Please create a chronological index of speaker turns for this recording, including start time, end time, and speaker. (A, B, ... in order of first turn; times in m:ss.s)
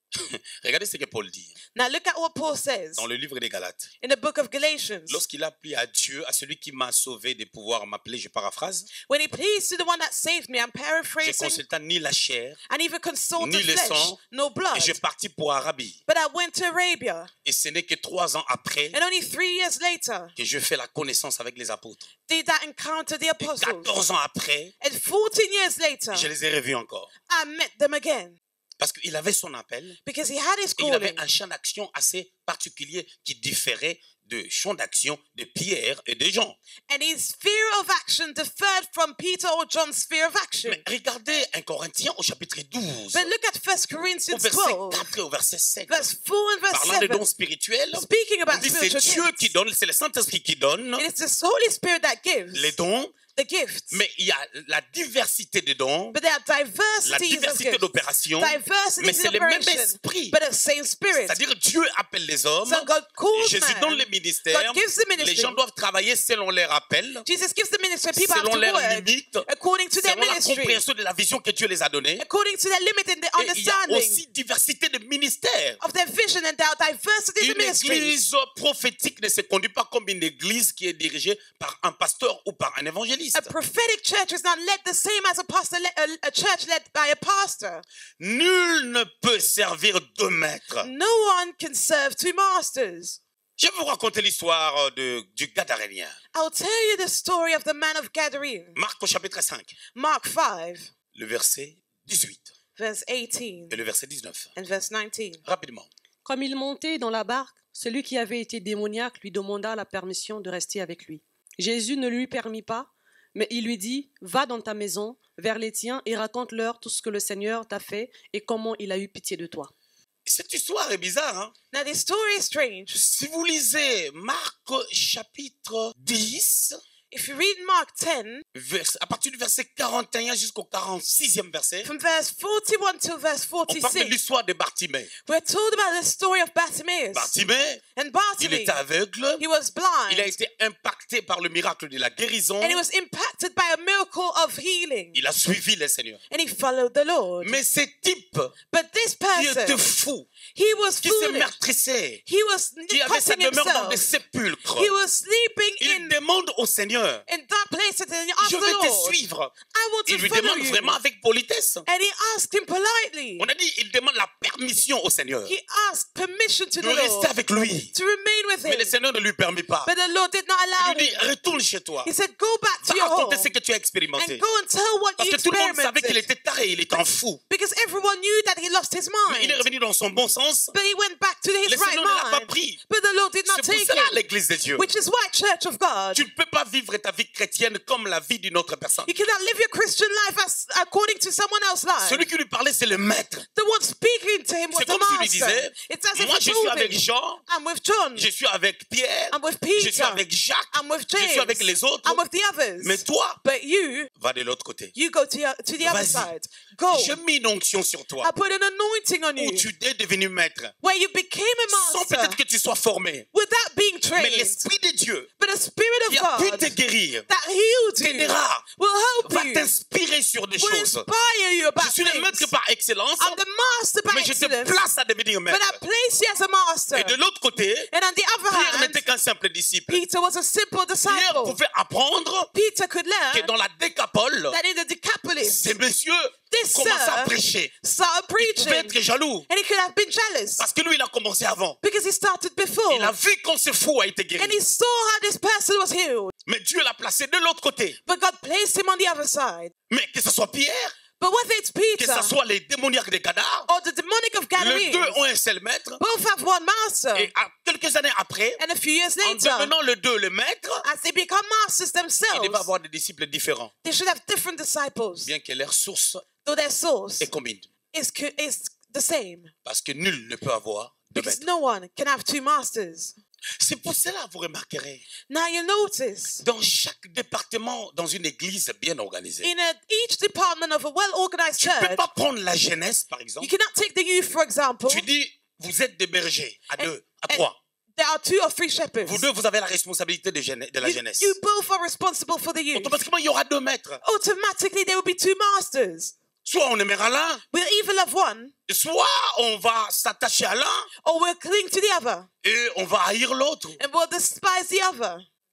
0:00.2-0:01.5 A
0:01.8-0:03.0 B
0:03.0-0:03.9 A
0:04.0-0:05.2 B
0:05.1-0:08.9 A
0:09.0-0:11.6 B
0:11.2-0:12.6 A
0:12.7-0:15.0 B
0:13.4-0:14.2 A
0:14.7-0:16.0 A
0:16.1-0:17.3 B
0:17.4-0:19.0 A
0:18.9-0:20.4 B
0:20.4-0:22.1 A
0:22.3-0:23.9 B
0:23.4-0:24.7 A
0:24.8-0:26.3 B
0:26.1-0:27.1 A
0:27.3-0:28.4 B
0:28.8-0:30.0 A
0:30.0-0:31.2 B
0:30.8-0:36.6 A
0:36.9-0:40.8 B
0:40.7-0:43.3 A
0:43.1-0:45.1 B
0:44.3-0:46.1 A
0:45.9-0:47.3 B
0:46.7-0:51.1 A
0:47.9-0:49.5 B
0:51.0-0:52.8 B
0:52.5-0:53.2 A
0:53.3-0:54.0 B
0:53.9-0:56.2 A
0:56.1-0:57.9 B
0:57.0-1:00.4 A
0:58.4-1:01.4 B
1:01.1-1:07.2 A
1:02.7-1:05.6 B
1:07.2-1:10.8 B
1:08.1-1:09.5 A
1:10.0-1:12.2 A
1:12.2-1:14.2 B
1:13.4-1:15.8 A
1:15.8-1:18.2 B
1:17.4-1:23.5 A
1:23.4-1:27.8 B
1:28.2-1:30.9 A
1:30.8-1:33.2 B
1:33.6-1:36.2 A
1:36.3-1:38.8 B
1:38.8-1:39.7 A
1:39.9-1:40.9 B
1:41.1-1:42.5 A
1:42.8-1:43.8 B
1:43.7-1:44.5 A
1:44.6-1:45.4 B
1:45.4-1:45.9 A
1:46.2-1:59.7 C
2:00.3-2:01.5 A
2:01.7-2:03.0 B
2:02.9-2:06.8 A
2:07.1-2:08.4 B
2:08.5-2:11.9 A
2:11.8-2:14.2 B
2:13.7-2:15.1 A
2:15.2-2:17.3 B
2:17.1-2:17.8 A
2:18.0-2:18.8 B
2:18.4-2:19.4 A
2:19.4-2:20.3 B
2:20.1-2:22.8 A
2:22.6-2:25.2 B
2:25.1-2:26.2 A
2:26.3-2:27.6 B
2:27.4-2:28.5 A
2:28.7-2:29.9 B
2:29.3-2:30.3 A
2:30.5-2:31.6 B
2:31.0-2:32.2 A
2:32.3-2:34.1 B
2:32.9-2:34.9 A
2:34.8-2:36.2 B
2:35.8-2:37.2 A
2:37.3-2:41.0 B
2:38.4-2:39.5 A
2:40.1-2:41.9 A
2:41.9-2:43.5 B
2:43.4-2:45.5 A
2:45.5-2:47.3 B
2:46.8-2:47.9 A
2:47.9-2:49.0 B
2:48.6-2:49.9 A
2:49.9-2:51.3 B
2:50.8-2:52.1 A
2:52.0-2:53.5 B
2:52.8-2:54.4 A
2:54.2-2:56.2 B
2:55.2-2:57.4 A
2:57.5-2:59.6 B
2:59.3-3:00.7 A
3:00.7-3:04.2 B
3:01.7-3:02.8 A
3:03.5-3:04.8 A
3:04.8-3:06.2 B
3:06.1-3:09.1 A
3:09.1-3:12.3 B
3:12.0-3:13.5 A
3:13.6-3:18.3 B
3:14.7-3:17.4 A
3:18.2-3:22.2 A
3:19.3-3:24.1 B
3:22.8-3:23.4 A
3:24.2-3:24.9 A
3:25.0-3:27.2 B
3:25.8-3:26.3 A
3:26.9-3:28.3 A
3:28.2-3:29.7 B
3:29.4-3:30.7 A
3:30.8-3:32.4 B
3:31.7-3:33.3 A
3:33.3-3:34.6 B
3:34.2-3:35.3 A
3:35.4-3:36.8 B
3:36.1-3:37.3 A
3:37.3-3:39.7 B
3:38.0-3:38.6 A
3:39.3-3:41.1 A
3:40.6-3:42.5 B
3:41.8-3:43.4 A
3:43.2-3:44.8 B
3:44.1-3:45.8 A
3:45.5-3:47.2 B
3:46.9-3:47.9 A
3:47.9-3:49.0 B
3:48.5-3:50.0 A
3:49.9-3:51.6 B
3:51.1-3:52.5 A
3:52.5-3:53.5 B
3:53.3-3:54.6 A
3:54.5-3:55.7 B
3:55.5-3:57.7 A
3:56.5-3:59.0 B
3:58.4-3:59.5 A
3:59.5-4:00.6 B
4:00.6-4:01.8 A
4:01.8-4:03.2 B
4:02.9-4:04.6 A
4:04.4-4:06.3 B
4:06.5-4:08.0 A
4:08.1-4:09.7 B
4:09.9-4:11.0 A
4:11.2-4:12.4 B
4:12.0-4:13.7 A
4:13.7-4:15.2 B
4:14.6-4:16.0 A
4:16.0-4:17.3 B
4:17.2-4:18.6 A
4:18.6-4:19.7 B
4:19.2-4:20.9 A
4:20.8-4:22.7 B
4:22.3-4:23.7 A
4:23.8-4:25.3 B
4:25.2-4:26.3 A
4:26.4-4:27.3 B
4:27.2-4:27.7 A
4:27.9-4:29.5 B
4:29.6-4:31.4 A
4:31.2-4:33.1 B
4:33.6-4:35.0 A
4:35.3-4:36.4 B
4:36.4-4:39.5 A
4:39.4-4:42.0 B
4:41.6-4:43.5 A
4:43.4-4:45.1 B
4:44.9-4:47.6 A
4:46.8-4:49.2 B
4:49.0-4:51.4 A
4:50.8-4:53.0 B
4:52.8-4:54.0 A
4:54.0-4:56.1 B
4:56.4-4:57.4 A
4:57.5-4:58.5 B
4:58.7-5:00.9 A
5:01.0-5:02.3 B
5:02.4-5:03.8 A
5:03.8-5:05.2 B